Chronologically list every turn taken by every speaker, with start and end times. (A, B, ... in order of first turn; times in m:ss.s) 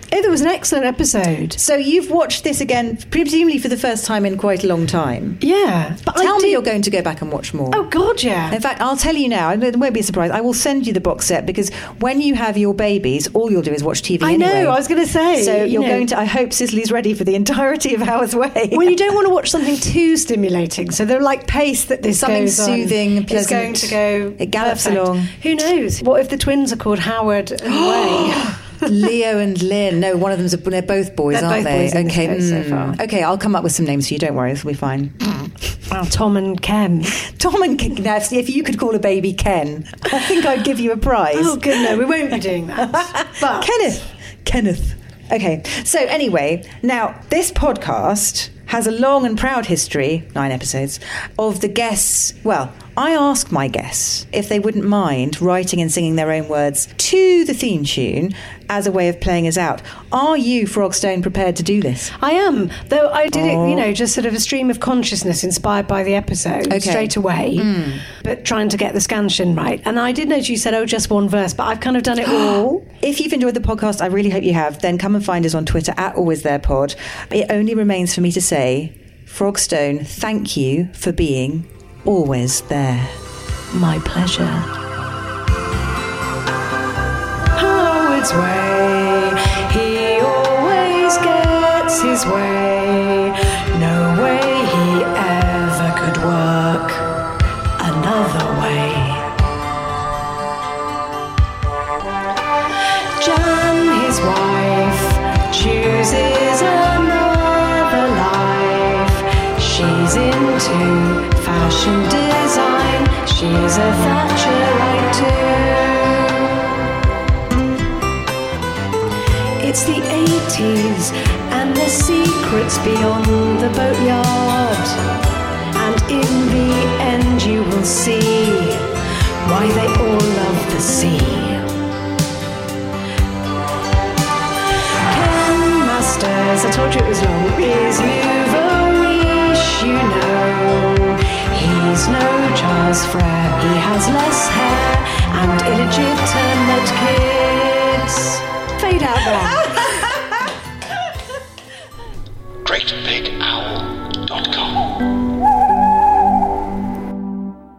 0:00.1-0:01.6 A
0:01.6-0:05.4 B
0:05.4-0:06.6 A
0:06.2-0:07.9 B
0:07.7-0:08.6 A
0:08.5-0:19.1 B
0:14.2-0:16.1 A
0:18.7-0:28.6 A
0:22.1-0:25.3 B
0:27.7-0:35.5 B
0:31.3-0:33.0 A
0:35.9-0:37.2 A
0:37.2-0:42.0 B
0:41.3-0:43.9 A
0:42.8-1:02.1 B
1:02.2-1:12.8 A
1:03.3-1:03.9 B
1:06.7-1:08.0 B
1:12.2-1:23.2 B
1:23.7-1:24.7 A
1:27.6-1:37.2 A
1:37.8-1:39.3 A
1:43.2-1:56.4 A
1:59.6-2:05.1 A
2:05.7-2:08.9 A
2:09.4-2:11.7 A
2:15.0-2:29.7 A
2:32.6-2:35.1 C